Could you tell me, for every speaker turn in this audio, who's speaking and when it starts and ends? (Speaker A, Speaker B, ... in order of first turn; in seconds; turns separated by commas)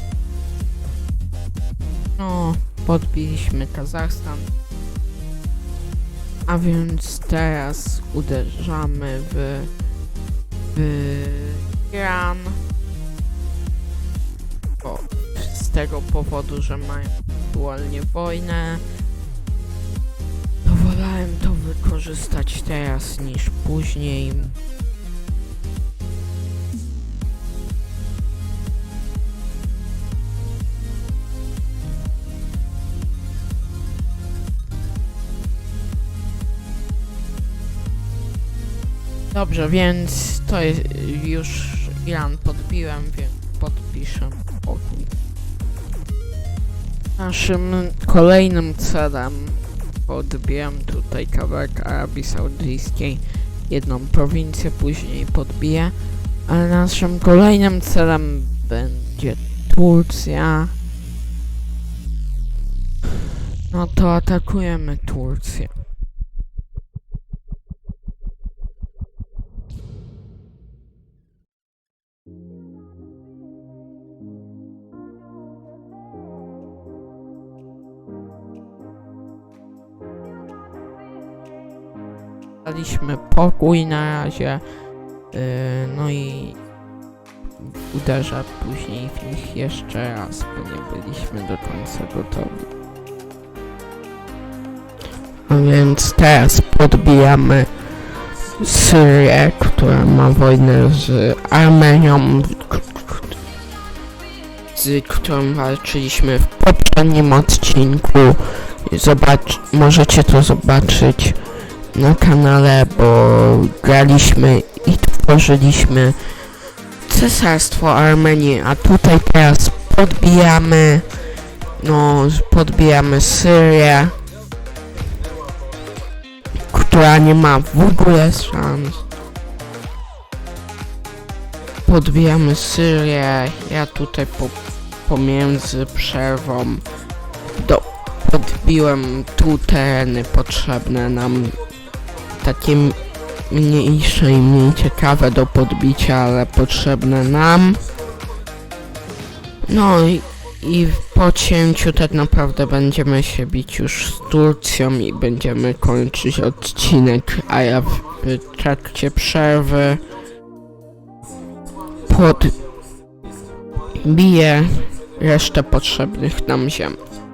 Speaker A: 2.2-4.5, Speaker A: 6.5-9.7, Speaker A: 10.7-12.6, Speaker A: 14.8-18.8, Speaker A: 20.6-24.5, Speaker A: 39.3-45.1, Speaker A: 47.2-55.9, Speaker A: 56.5-60.7, Speaker A: 63.7-65.7, Speaker A: 82.6-84.6, Speaker A: 85.3-86.6, Speaker A: 87.6-92.7, Speaker A: 95.5-97.7, Speaker A: 98.6-103.3, Speaker A: 104.7-111.4, Speaker A: 111.9-116.4, Speaker A: 117.0-121.1, Speaker A: 121.8-124.2, Speaker A: 126.7-129.0, Speaker A: 131.8-136.8, Speaker A: 137.4-141.6, Speaker A: 142.4-147.8, Speaker A: 149.7-160.0, Speaker A: 162.0-162.6, Speaker A: 164.0-167.0